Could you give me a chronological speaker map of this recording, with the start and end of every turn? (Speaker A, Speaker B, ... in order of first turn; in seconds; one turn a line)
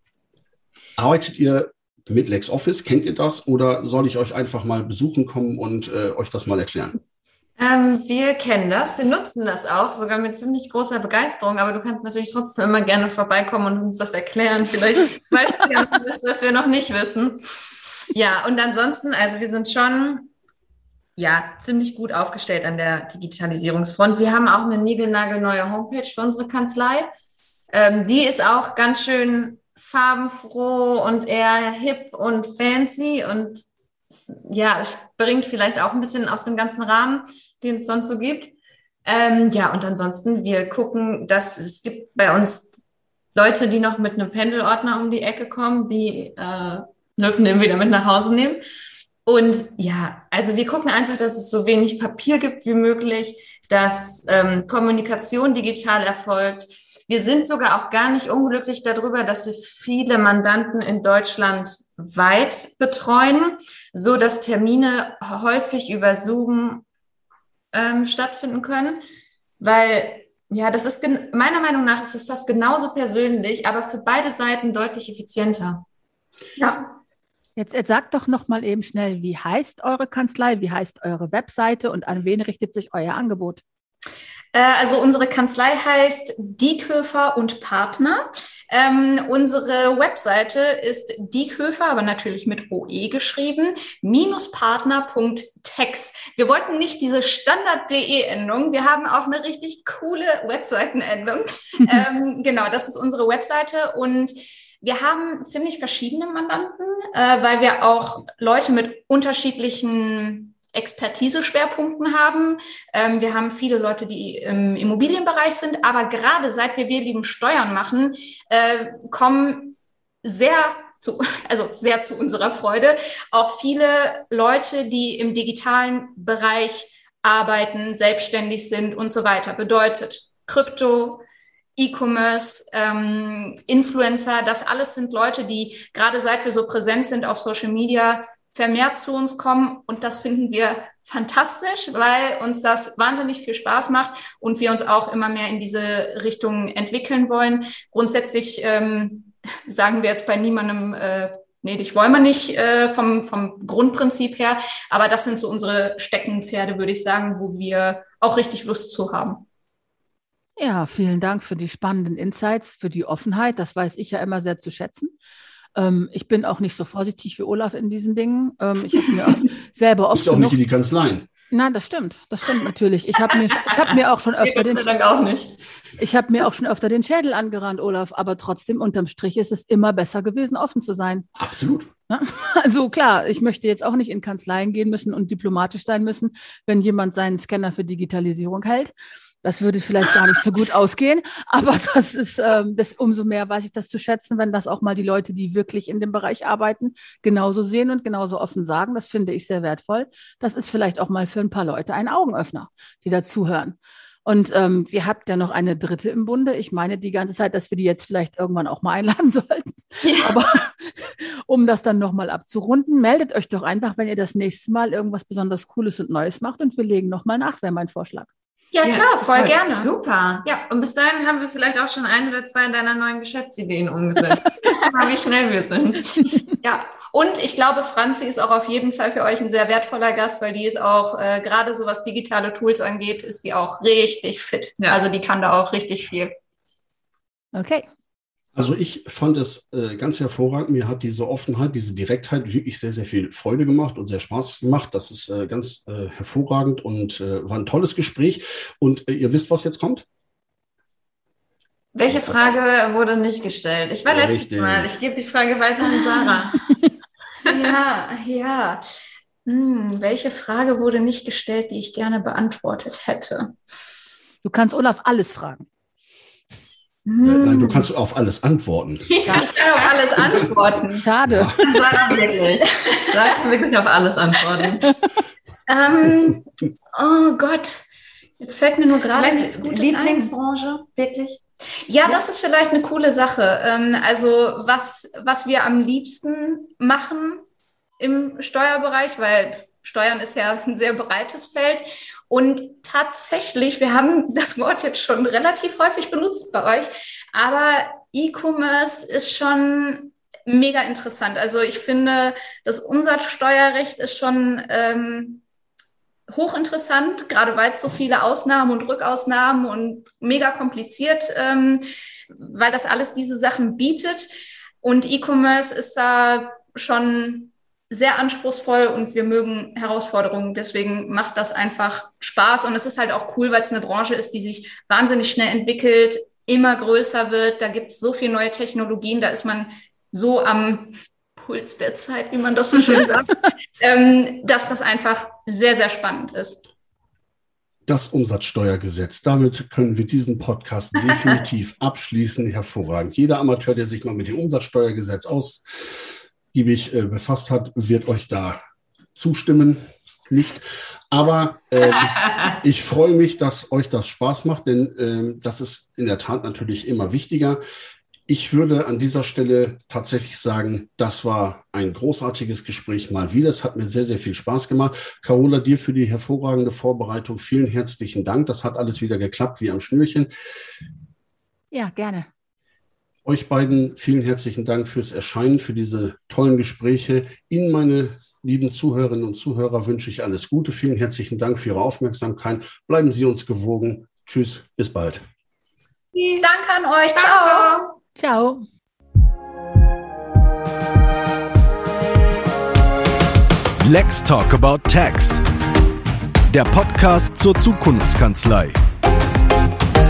Speaker A: 1.0-7.0
Speaker B: 7.6-20.3
Speaker B: 21.2-27.1
Speaker B: 27.7-33.6
Speaker B: 34.3-38.5
Speaker B: 39.0-42.7
Speaker B: 43.3-48.6
Speaker B: 49.2-66.8
Speaker B: 67.7-69.0
Speaker B: 69.6-75.8
Speaker C: 76.6-76.9
Speaker D: 77.6-83.6
Speaker C: 84.5-131.2
Speaker C: 131.8-159.4
Speaker D: 160.6-165.1
Speaker D: 165.8-170.6
Speaker A: 170.1-171.3
Speaker D: 171.5-174.9
Speaker B: 174.4-175.6
Speaker D: 176.0-181.3
Speaker A: 181.3-181.9
Speaker D: 182.1-218.3
Speaker B: 210.0-210.4
Speaker C: 218.7-219.9
Speaker B: 218.8-226.3
Speaker C: 226.6-236.3
Speaker D: 237.5-237.8
Speaker A: 238.5-250.0
Speaker B: 251.9-256.7
Speaker A: 252.1-252.5
Speaker A: 254.1-254.9
Speaker C: 257.4-258.8
Speaker C: 259.4-263.5
Speaker D: 264.4-265.6
Speaker B: 267.1-267.9
Speaker A: 267.2-269.2
Speaker B: 269.1-270.5
Speaker C: 269.3-271.0
Speaker A: 270.2-270.7
Speaker D: 270.9-271.6
Speaker A: 271.3-271.5
Speaker B: 271.6-275.0
Speaker C: 275.7-277.8
Speaker C: 278.4-280.3
Speaker B: 279.1-281.4
Speaker C: 281.9-287.4
Speaker C: 288.0-305.4
Speaker C: 306.3-314.3
Speaker C: 314.8-336.6
Speaker A: 337.9-345.6
Speaker A: 346.5-348.6
Speaker A: 349.1-357.6
Speaker B: 352.2-352.5
Speaker A: 358.3-370.3
Speaker D: 371.7-372.3
Speaker A: 373.2-385.2
Speaker B: 386.1-386.4
Speaker C: 386.4-387.7
Speaker B: 387.2-387.9
Speaker D: 388.1-388.6
Speaker E: 393.8-395.4
Speaker E: 396.5-398.8